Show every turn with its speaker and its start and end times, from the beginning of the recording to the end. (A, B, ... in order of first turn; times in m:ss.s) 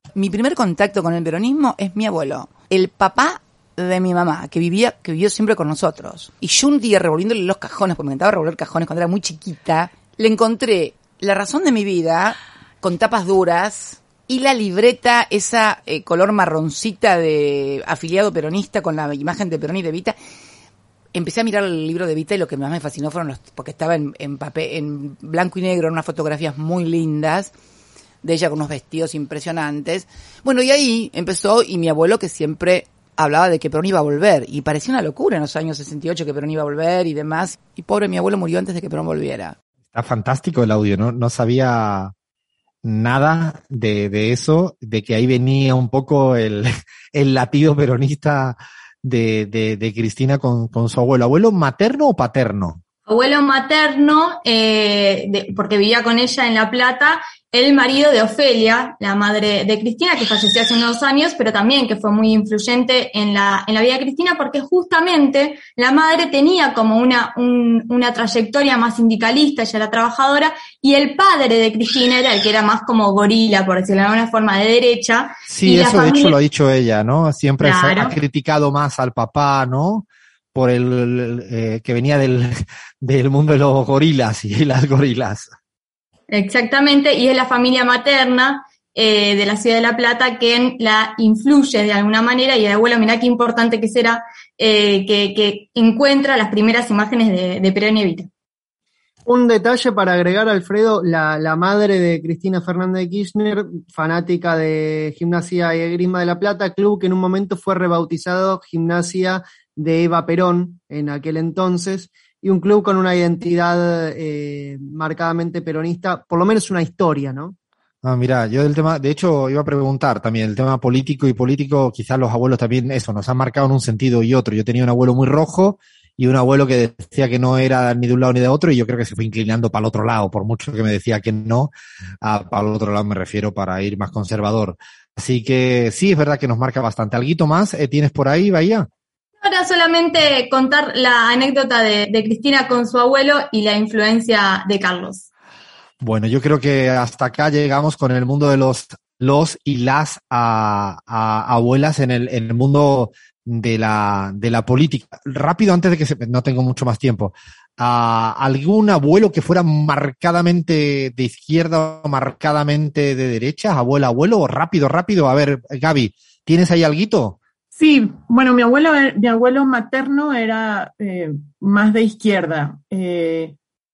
0:00.2-0:20.2 A
0:21.1-0:27.5 A
0:28.2-0:39.6 A
0:39.9-0:42.1 B
0:42.8-0:52.8 B
0:53.1-1:16.4 C
1:15.5-1:25.5 B
1:17.6-1:18.2 C
1:26.3-1:38.3 C
1:39.3-1:57.5 D
1:58.0-2:11.7 B
2:12.2-2:18.9 B
2:19.4-2:25.3 C
2:26.0-2:47.4 B
2:47.8-2:53.6 E